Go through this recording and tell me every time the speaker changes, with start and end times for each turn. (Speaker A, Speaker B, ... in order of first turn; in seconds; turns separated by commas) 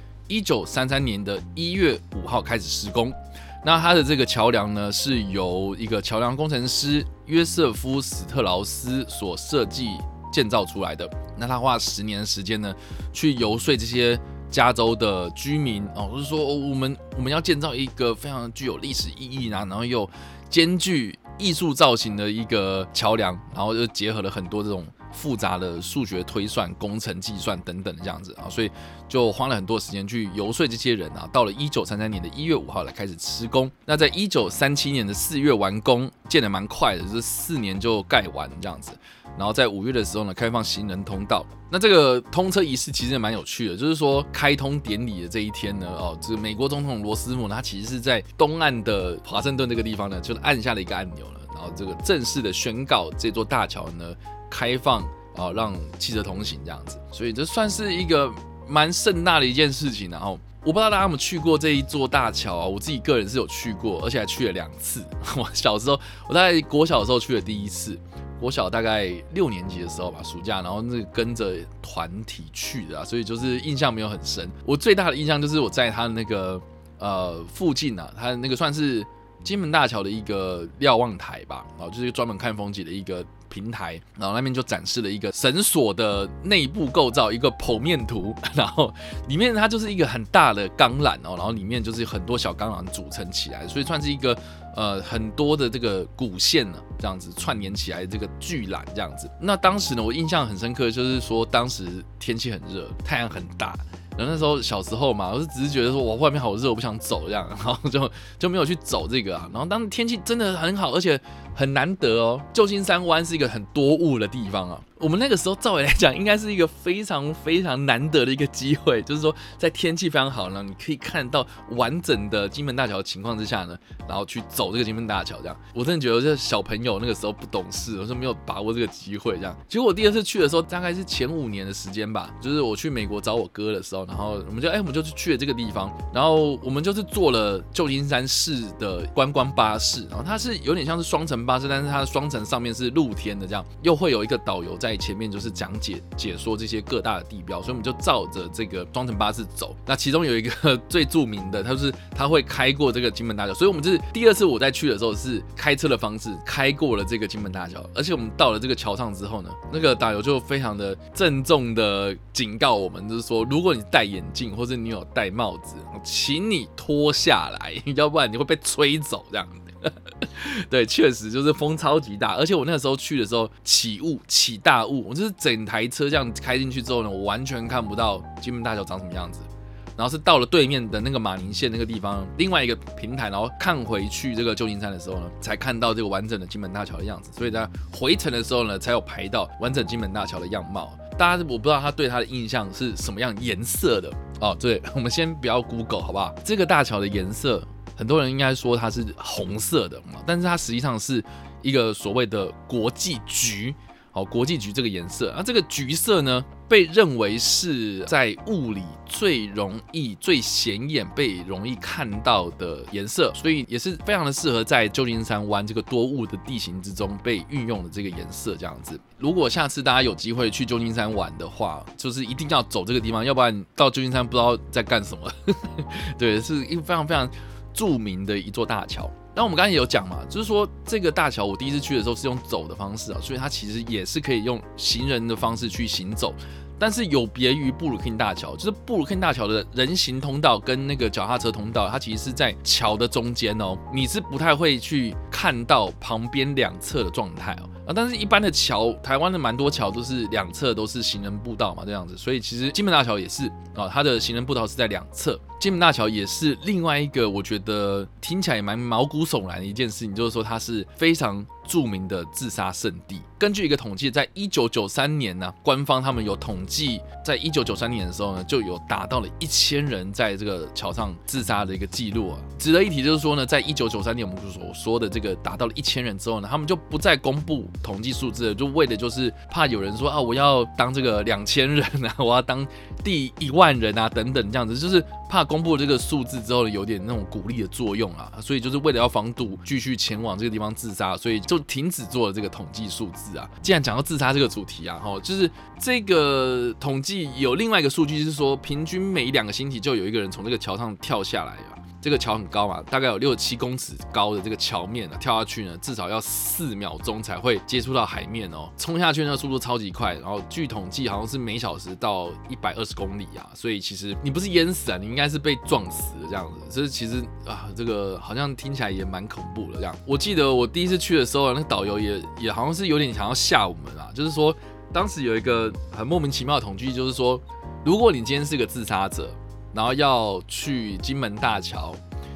Speaker A: 0.3-332.0